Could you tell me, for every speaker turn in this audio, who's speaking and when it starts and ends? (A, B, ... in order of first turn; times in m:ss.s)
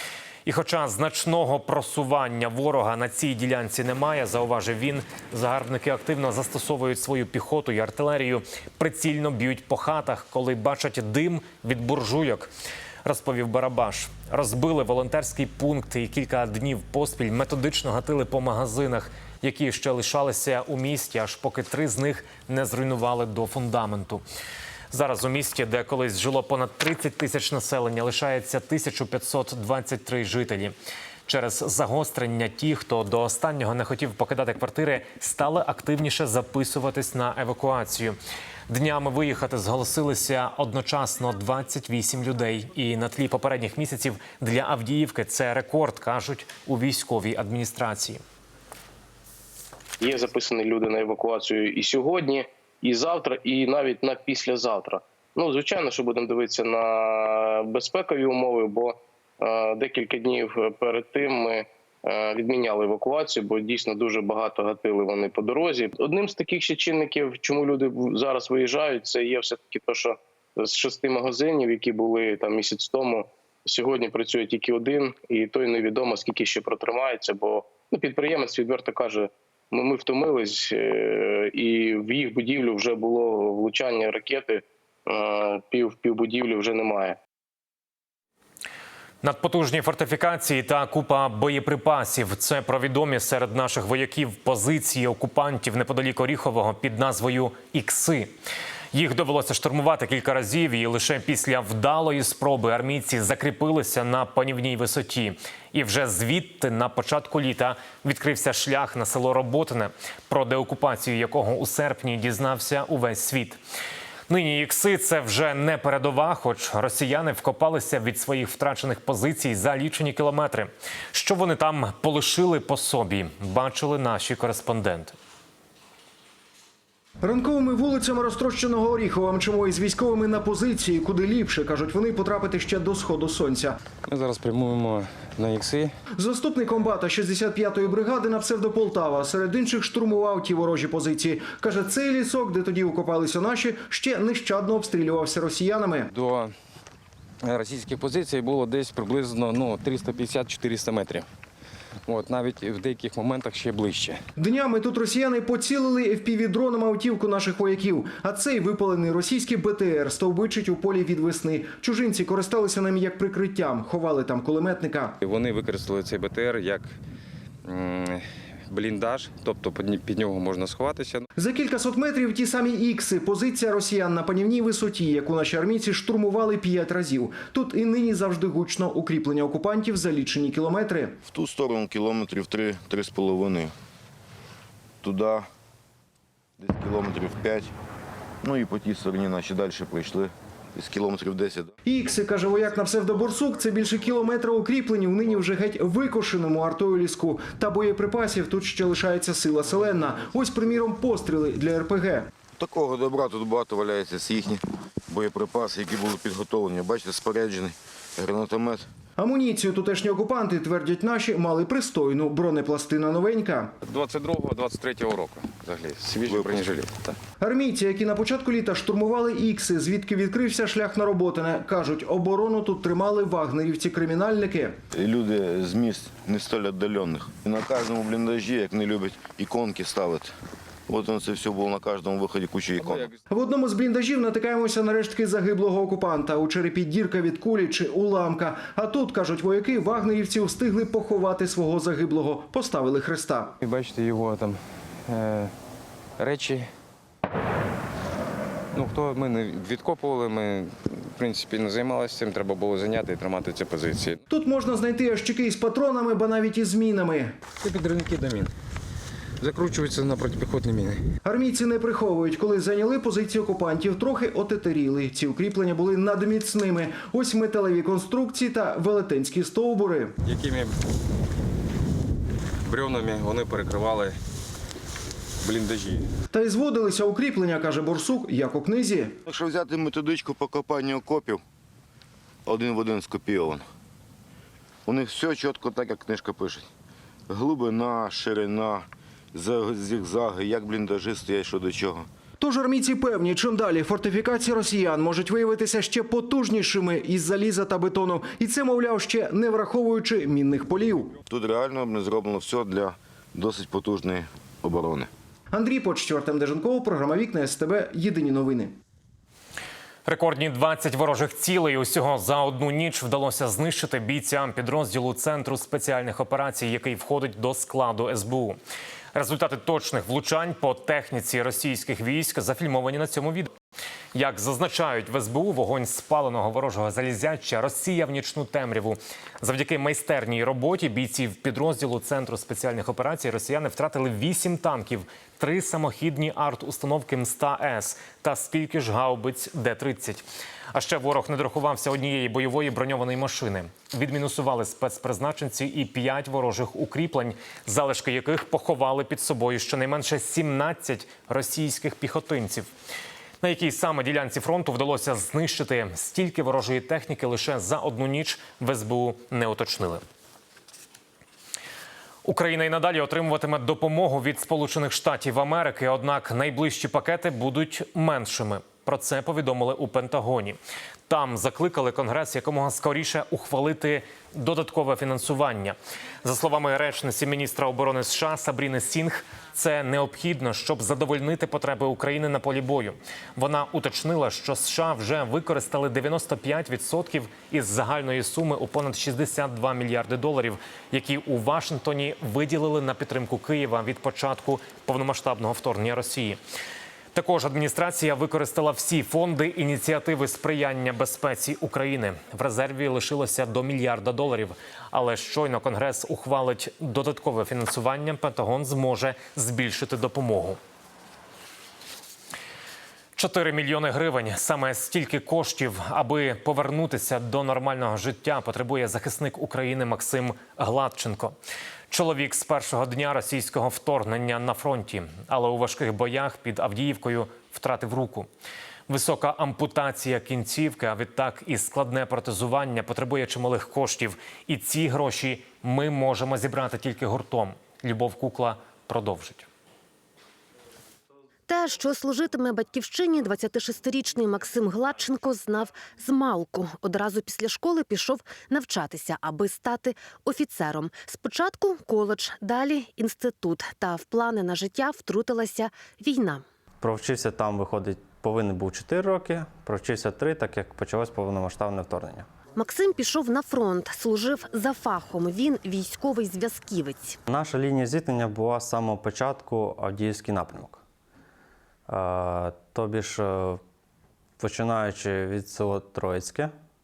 0:00.4-0:12.5 A
0:13.0-0:24.2 A
0:24.9-0:30.7 A
0:31.3-0:38.2 A
0:38.7-0:48.2 A
0:50.0-1:27.2 B
1:29.2-1:38.3 A
1:38.9-1:53.6 A
1:54.3-2:05.2 A
2:07.2-2:13.8 C
2:14.0-2:15.9 D
2:16.2-2:26.1 C
2:26.1-2:26.6 D
2:27.4-2:31.3 D
2:32.0-2:34.2 D
2:34.4-2:45.2 C
2:45.2-2:47.0 D
2:47.6-2:51.3 D
2:51.4-3:01.2 C
3:01.2-3:03.7 E
3:05.0-3:05.5 E
3:06.6-3:07.7 E
3:08.4-3:11.8 E
3:11.8-3:22.3 C
3:12.5-3:12.8 E
3:13.6-3:14.3 E
3:22.6-3:28.9 E
3:29.2-3:33.7 C
3:33.8-3:37.2 D
3:36.2-3:36.8 E
3:37.4-3:44.8 C
3:44.9-3:50.3 E
3:50.9-3:53.1 E
3:53.3-4:03.5 C
4:03.6-4:05.5 D
4:06.2-4:06.7 D
4:08.7-4:14.2 D
4:14.3-4:17.4 C
4:17.6-4:18.5 D
4:19.4-4:21.1 D
4:21.2-4:30.2 C
4:30.2-4:30.8 D
4:32.6-4:34.2 D
4:35.4-4:36.1 D
4:36.3-4:39.2 C
4:39.2-4:41.4 E
4:42.5-4:43.7 E
4:44.9-4:46.7 E
4:47.3-4:52.1 E
4:52.4-5:01.2 C
5:01.2-5:05.1 E
5:05.5-5:08.8 C
5:10.0-5:18.6 A
5:19.2-5:23.5 A
5:24.2-5:52.7 A
5:53.4-6:00.0 A
6:02.2-6:36.4 A
6:37.1-6:50.6 A
6:53.2-7:01.3 A
7:01.9-7:08.3 A
7:08.9-7:19.5 A
7:21.5-7:36.4 F
7:36.8-7:42.3 G
7:42.6-7:47.2 F
7:47.3-7:50.8 G
7:51.9-7:53.6 G
7:54.4-7:56.5 G